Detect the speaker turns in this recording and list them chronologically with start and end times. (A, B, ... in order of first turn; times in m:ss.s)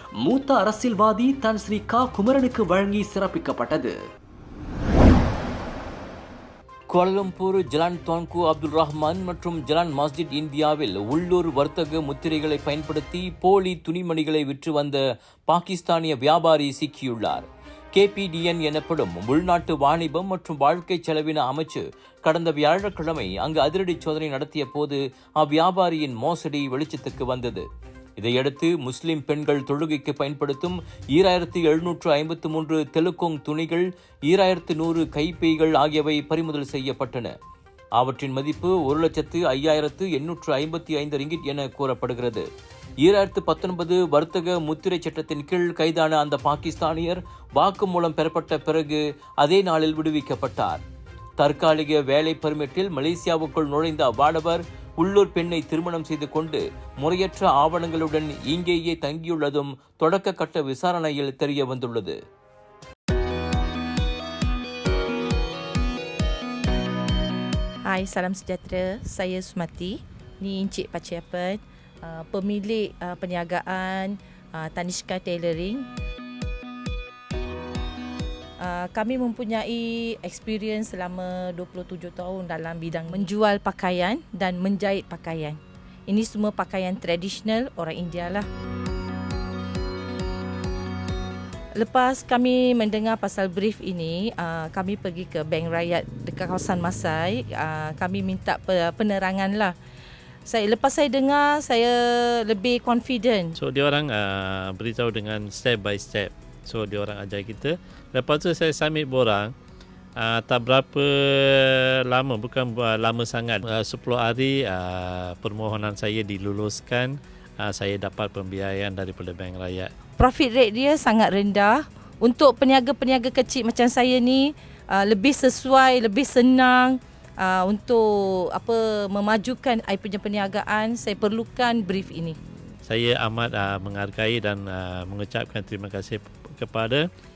0:00.2-0:03.9 A
0:06.9-0:27.6 B
0:28.2-0:37.3 B
0:38.0-0:42.5 B
0:43.0-0:50.8 B
0:51.4-1:02.2 B
1:07.9-1:15.8 C
1:18.6-1:28.5 C
1:31.8-1:39.7 C
1:40.5-1:43.5 C
1:43.5-1:49.5 D
1:50.2-1:59.9 D
2:00.2-2:08.0 C
2:08.5-2:12.4 C
2:12.9-2:17.1 D